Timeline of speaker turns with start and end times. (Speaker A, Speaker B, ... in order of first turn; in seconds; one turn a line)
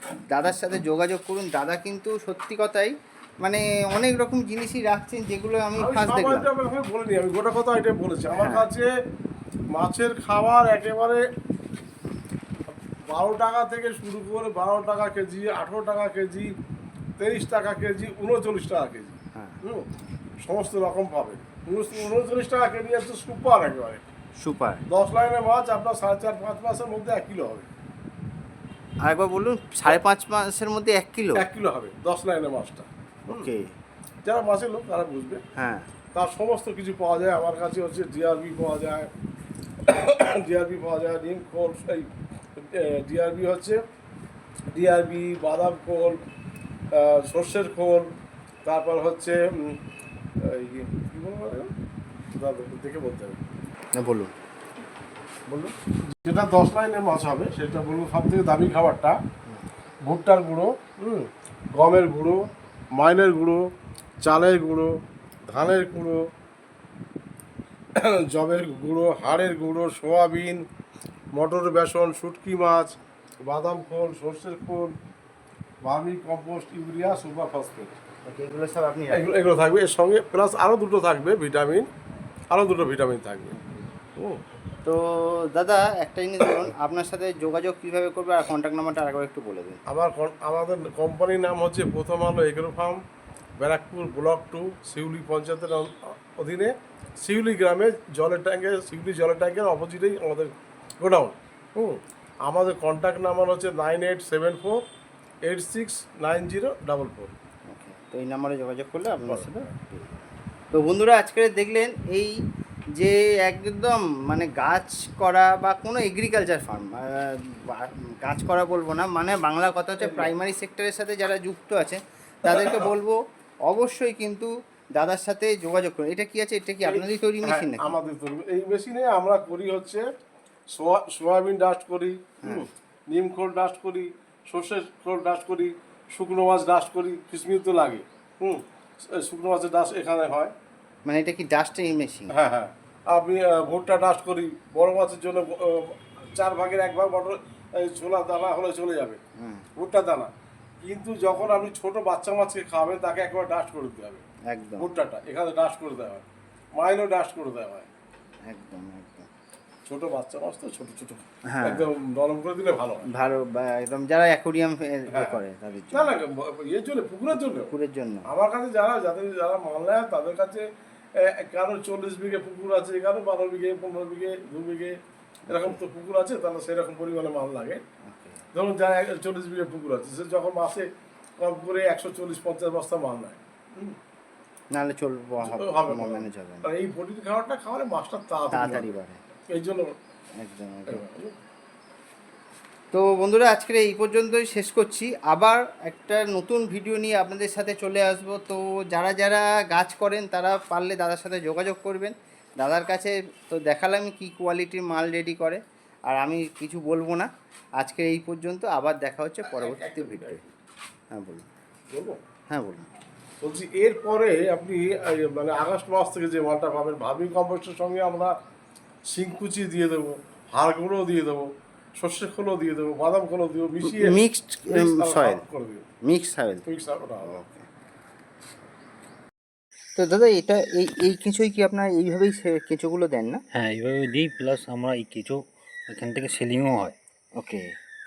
Speaker A: 0.3-6.5
Speaker B: 5.8-8.9
Speaker A: 8.3-8.7
Speaker B: 9.7-11.2
Speaker B: 12.7-16.5
Speaker B: 17.2-19.9
Speaker A: 19.3-19.6
Speaker B: 20.4-24.0
Speaker A: 24.4-24.8
Speaker B: 24.9-27.7
Speaker A: 29.0-31.5
Speaker B: 31.4-33.5
Speaker A: 33.3-33.7
Speaker B: 34.2-35.4
Speaker A: 35.5-35.9
Speaker B: 36.1-39.1
Speaker B: 39.8-43.8
Speaker B: 44.7-46.2
Speaker B: 46.9-48.1
Speaker B: 48.6-49.8
Speaker B: 50.4-51.7
Speaker B: 52.3-53.4
Speaker A: 53.9-54.3
Speaker B: 55.5-59.1
Speaker B: 60.0-62.4
Speaker B: 63.0-63.7
Speaker B: 64.2-64.9
Speaker B: 65.5-66.2
Speaker B: 68.0-70.7
Speaker B: 71.3-74.9
Speaker B: 75.8-78.0
Speaker A: 78.2-79.4
Speaker B: 79.1-81.9
Speaker B: 82.5-83.5
Speaker A: 83.5-83.9
Speaker A: 84.8-89.8
Speaker B: 89.9-93.0
Speaker B: 93.6-104.8
Speaker B: 105.4-107.3
Speaker A: 107.7-112.4
Speaker A: 113.0-128.0
Speaker B: 120.0-120.3
Speaker B: 122.5-122.9
Speaker B: 126.8-130.1
Speaker B: 130.7-140.5
Speaker A: 141.1-142.4
Speaker B: 142.3-149.2
Speaker A: 149.4-149.7
Speaker B: 149.8-154.2
Speaker A: 154.5-154.9
Speaker B: 154.8-156.2
Speaker B: 156.8-157.9
Speaker A: 158.4-159.3
Speaker B: 159.8-163.1
Speaker A: 161.5-161.9
Speaker A: 163.1-166.1
Speaker B: 165.1-165.4
Speaker B: 165.9-167.7
Speaker A: 167.3-168.3
Speaker B: 168.3-170.7
Speaker B: 171.2-175.0
Speaker A: 175.5-175.8
Speaker B: 175.5-177.8
Speaker A: 178.1-178.4
Speaker B: 178.5-180.9
Speaker B: 181.4-184.0
Speaker A: 184.7-186.7
Speaker B: 185.4-188.9
Speaker A: 188.5-189.2
Speaker B: 189.5-189.9
Speaker A: 190.4-191.0
Speaker B: 190.9-191.3
Speaker A: 192.9-207.3
Speaker A: 207.8-210.5
Speaker B: 209.4-210.4
Speaker A: 211.1-211.4
Speaker B: 211.9-212.2
Speaker A: 212.5-212.9
Speaker B: 213.4-218.3
Speaker B: 219.1-225.8
Speaker A: 223.8-225.4
Speaker A: 226.0-226.7
Speaker B: 226.7-227.4
Speaker A: 227.2-227.7
Speaker A: 229.9-233.4
Speaker C: 233.5-236.9
Speaker A: 237.3-237.7